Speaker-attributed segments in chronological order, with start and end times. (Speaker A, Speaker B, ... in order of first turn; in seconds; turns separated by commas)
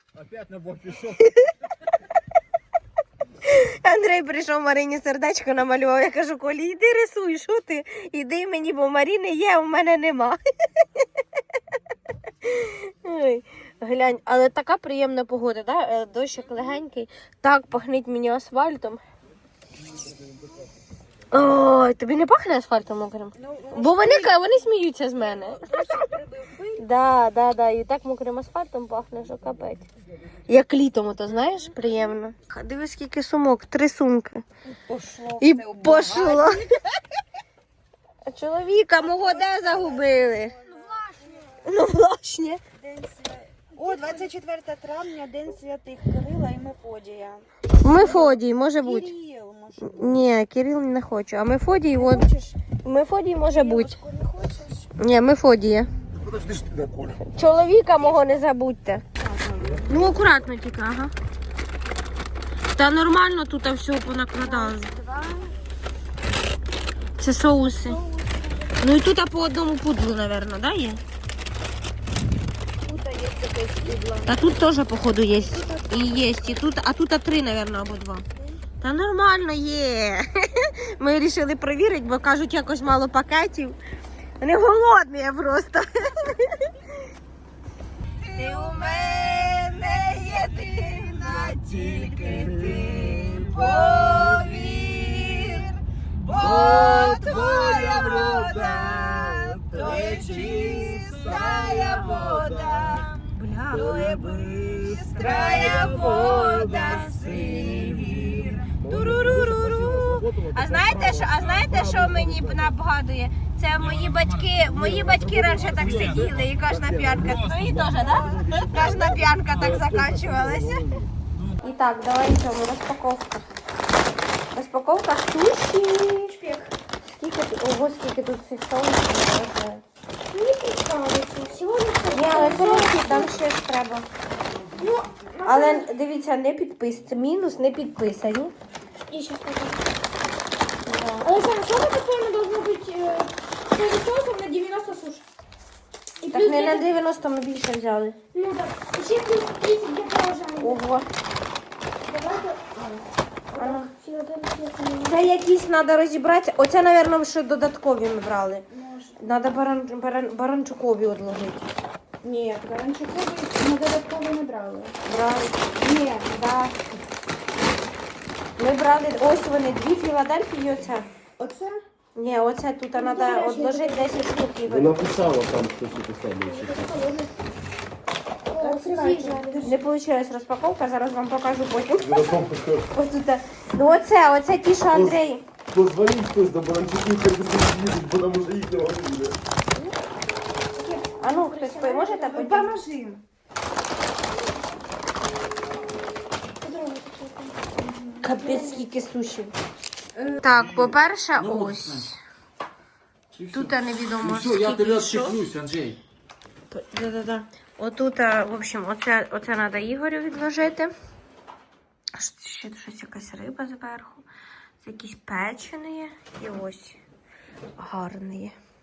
Speaker A: 0.4-1.0, Speaker B: 1.2-1.5, Speaker B: 3.4-10.4, Speaker B: 12.4-19.0, Speaker A: 20.1-20.5, Speaker B: 21.3-25.9, Speaker C: 23.4-24.6, Speaker C: 25.4-26.8, Speaker B: 26.8-29.9, Speaker B: 30.5-34.4, Speaker C: 34.7-36.8, Speaker B: 35.4-36.7, Speaker B: 38.3-40.6, Speaker C: 39.0-41.6, Speaker B: 41.6-42.6, Speaker C: 42.8-50.2, Speaker D: 43.8-44.3, Speaker B: 47.8-49.1, Speaker B: 49.8-52.3, Speaker C: 52.0-52.6, Speaker B: 52.8-54.0, Speaker C: 53.5-54.9, Speaker B: 55.0-55.9, Speaker A: 56.2-57.3, Speaker B: 57.2-59.0, Speaker C: 59.2-59.9, Speaker A: 59.6-60.3, Speaker B: 59.9-61.1, Speaker B: 62.8-64.9, Speaker C: 64.4-65.5, Speaker B: 67.2-68.0, Speaker C: 67.8-68.6, Speaker B: 68.8-71.0, Speaker C: 72.8-74.3, Speaker B: 74.2-78.2, Speaker C: 75.5-76.4, Speaker B: 78.8-83.8, Speaker B: 84.4-86.8, Speaker B: 88.3-95.7, Speaker A: 92.3-94.3, Speaker C: 93.5-94.0, Speaker B: 96.2-102.6, Speaker A: 96.3-103.0, Speaker C: 98.2-98.5, Speaker C: 99.7-103.1, Speaker B: 103.3-120.8, Speaker A: 103.7-112.7, Speaker C: 103.8-107.5, Speaker A: 114.6-121.1, Speaker B: 121.6-123.5, Speaker B: 124.5-126.3, Speaker D: 126.2-126.7, Speaker B: 127.0-129.8, Speaker D: 130.3-133.4, Speaker B: 132.1-134.1, Speaker D: 134.8-135.9, Speaker B: 135.4-138.5, Speaker D: 139.1-139.9, Speaker B: 140.9-141.3, Speaker D: 141.2-145.2, Speaker D: 146.2-146.9, Speaker B: 146.3-148.2, Speaker D: 148.3-150.8, Speaker B: 150.6-151.1, Speaker D: 152.0-152.6, Speaker C: 152.7-153.1, Speaker B: 153.6-153.9, Speaker D: 153.6-155.2, Speaker B: 155.0-158.6, Speaker C: 158.7-159.2, Speaker B: 159.2-161.7, Speaker C: 162.2-165.0, Speaker B: 165.1-165.7, Speaker C: 165.8-166.5, Speaker B: 166.3-166.7, Speaker B: 168.6-171.1, Speaker C: 171.4-171.8, Speaker B: 172.2-175.0, Speaker D: 172.9-174.4, Speaker A: 174.7-177.0, Speaker D: 176.4-177.3, Speaker D: 178.5-179.7, Speaker C: 178.6-179.8, Speaker B: 179.6-182.3, Speaker A: 182.0-182.9, Speaker B: 182.9-185.4, Speaker A: 184.9-189.4, Speaker D: 190.7-192.5, Speaker B: 191.2-192.9, Speaker C: 192.2-193.2, Speaker D: 196.6-198.9, Speaker B: 198.2-199.5, Speaker C: 200.2-200.4, Speaker B: 200.4-202.2, Speaker E: 201.3-202.1, Speaker E: 203.3-206.0, Speaker B: 203.5-205.4, Speaker B: 206.7-210.9, Speaker B: 212.2-214.2, Speaker B: 214.8-217.0, Speaker B: 217.8-218.6